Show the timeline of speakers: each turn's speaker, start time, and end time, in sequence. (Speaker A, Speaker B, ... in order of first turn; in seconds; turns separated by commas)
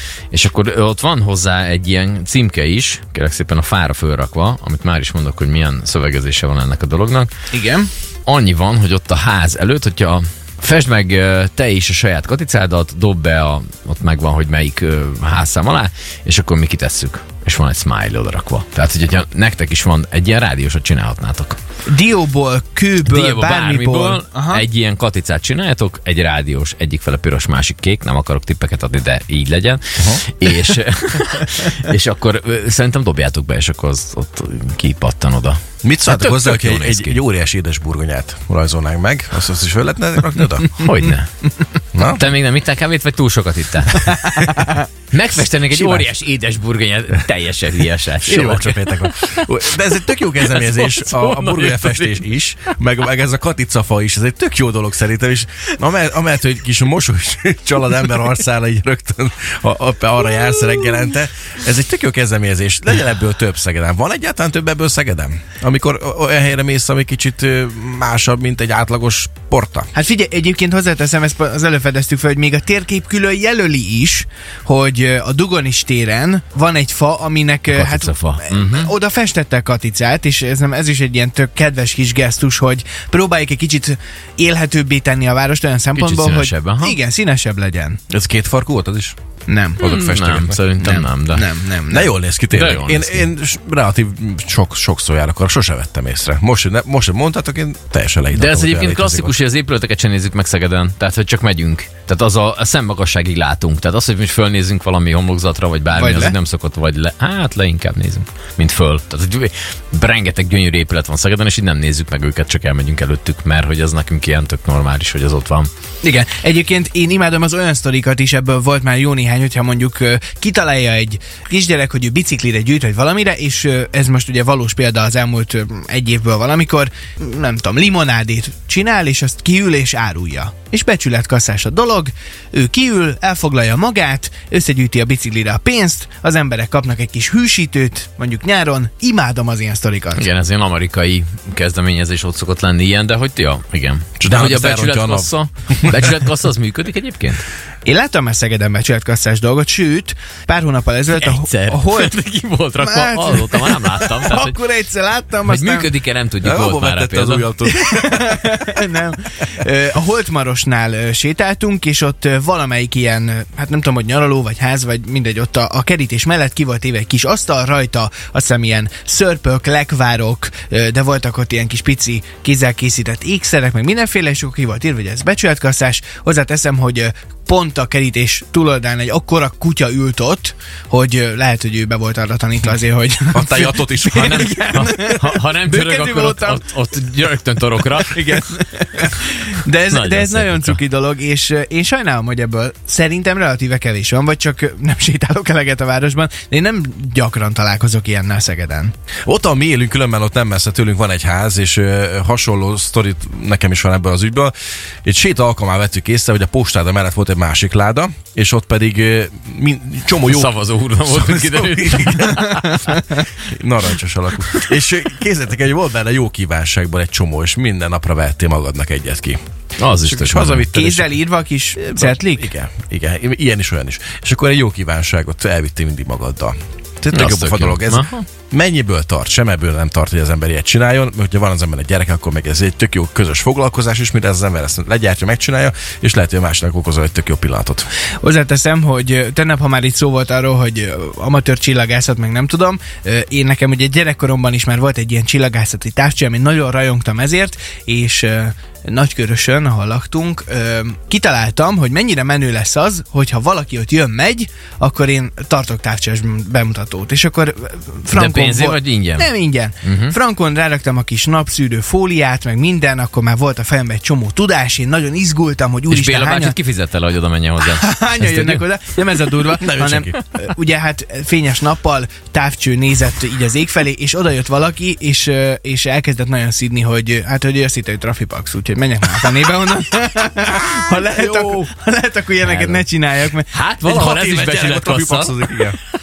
Speaker A: 0.3-7.3, Speaker B: 7.5-7.9, Speaker A: 8.2-21.6, Speaker B: 21.9-24.6, Speaker A: 23.0-37.2, Speaker C: 35.8-40.9, Speaker A: 40.8-52.2, Speaker C: 41.9-42.3, Speaker B: 44.5-44.8, Speaker C: 45.7-46.1, Speaker C: 48.2-69.9, Speaker B: 69.9-88.0, Speaker A: 77.7-78.9, Speaker A: 85.9-87.0, Speaker C: 88.1-89.1, Speaker B: 89.5-89.8, Speaker C: 89.8-90.6, Speaker A: 89.8-91.5, Speaker B: 90.8-92.1, Speaker C: 91.9-99.3, Speaker A: 92.5-93.3, Speaker A: 98.3-115.7, Speaker B: 105.9-106.3, Speaker B: 116.0-140.2, Speaker A: 140.1-147.4, Speaker C: 144.2-146.2, Speaker B: 147.8-152.1, Speaker A: 151.1-154.6, Speaker B: 152.8-155.9, Speaker A: 155.4-157.5, Speaker C: 156.4-158.2, Speaker B: 157.7-183.8, Speaker C: 183.3-184.9, Speaker A: 184.1-188.4, Speaker B: 184.5-186.6, Speaker B: 187.9-198.9, Speaker A: 189.9-190.8, Speaker C: 199.3-204.5, Speaker C: 205.0-219.4, Speaker A: 210.2-213.0, Speaker A: 219.8-220.7, Speaker C: 220.0-221.2, Speaker B: 220.7-222.5, Speaker C: 221.8-237.9, Speaker A: 227.1-228.2, Speaker B: 238.2-266.5, Speaker A: 258.1-259.3, Speaker A: 259.8-260.1, Speaker A: 265.9-268.9, Speaker B: 267.6-283.5, Speaker C: 269.4-270.2, Speaker C: 280.9-281.6, Speaker A: 282.4-282.8, Speaker A: 283.5-285.7, Speaker C: 283.8-285.8